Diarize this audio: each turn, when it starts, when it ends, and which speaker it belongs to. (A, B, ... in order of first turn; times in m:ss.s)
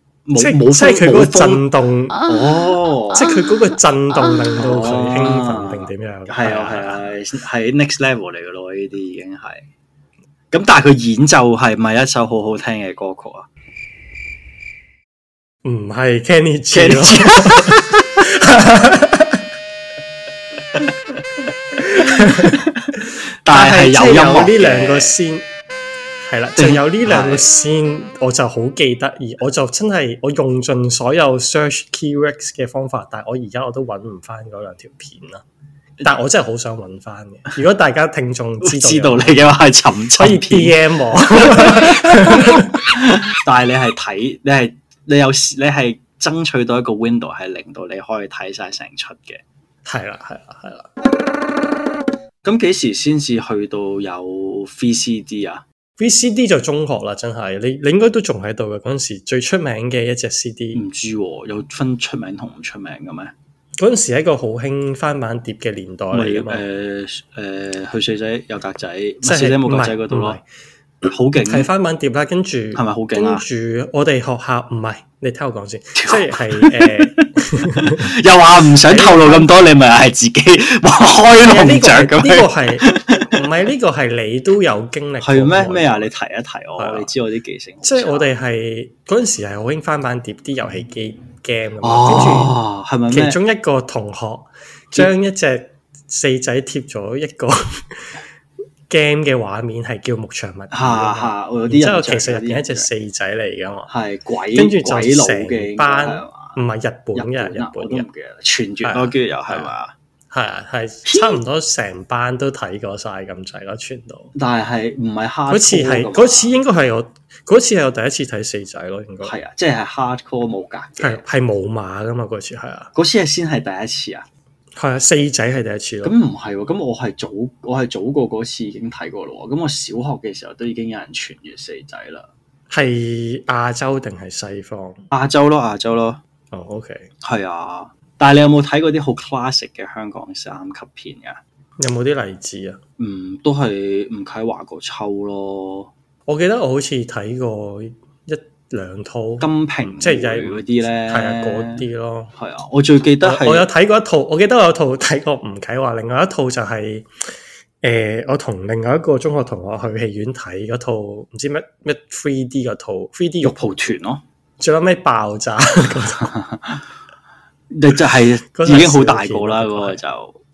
0:00.3-0:01.6 A
0:00.4-0:02.2 B
0:02.2-0:03.2 A
0:03.1-0:07.0 B
0:04.6-0:09.6 A
0:10.5-0:13.5 A
0:15.6-0:19.4 B
0:16.7-0:18.2 A
0:21.8-0:25.2 A
0:21.9-0:22.6 B
0:23.5-0:25.4 B
0:26.2-0:35.4 B
0:26.6-0:27.5 A
0:36.0-0:39.5 B
0:38.6-0:49.4 A
0:40.2-0:42.8 B
0:49.8-0:50.9 B
0:52.4-0:55.6 A
0:56.0-1:00.8 B
1:00.8-1:03.3 A
1:03.8-1:06.6 B
1:06.1-1:10.4 A
1:09.2-1:10.4 B
1:11.0-1:11.7 A
1:11.4-1:18.1 B
1:12.8-1:13.4 A
1:16.0-1:23.4 A
1:18.8-1:19.7 B
1:21.4-1:26.1 B
1:25.2-1:28.3 A
1:26.8-1:27.1 B
1:27.8-1:32.6 B
1:31.8-1:33.4 A
1:33.1-1:38.2 B
1:38.9-1:43.9 B
1:40.7-1:42.9 A
1:43.9-1:46.6 A
1:44.6-1:48.1 B
1:47.2-1:49.9 A
1:48.8-1:49.7 B
1:50.3-1:54.3 B
1:51.1-1:51.4 A
1:54.4-1:56.5 A
1:55.5-1:59.3 B
1:59.2-2:01.2 A
2:01.0-2:02.9 B
2:03.0-2:04.3 A
2:04.8-2:06.2 B
2:06.0-2:12.3 A
2:12.7-2:15.0 B
2:15.1-2:16.2 A
2:16.5-2:17.1 B
2:17.2-2:21.4 A
2:21.8-2:22.8 B
2:23.0-2:25.9 A
2:26.3-2:32.3 B
2:29.4-2:31.8 A
2:32.4-2:33.7 A
2:33.2-2:37.1 B
2:37.8-2:43.7 B
2:43.4-2:44.2 A
2:44.6-2:46.3 B
2:46.2-2:46.8 A
2:47.7-2:50.4 A
2:48.5-2:50.0 B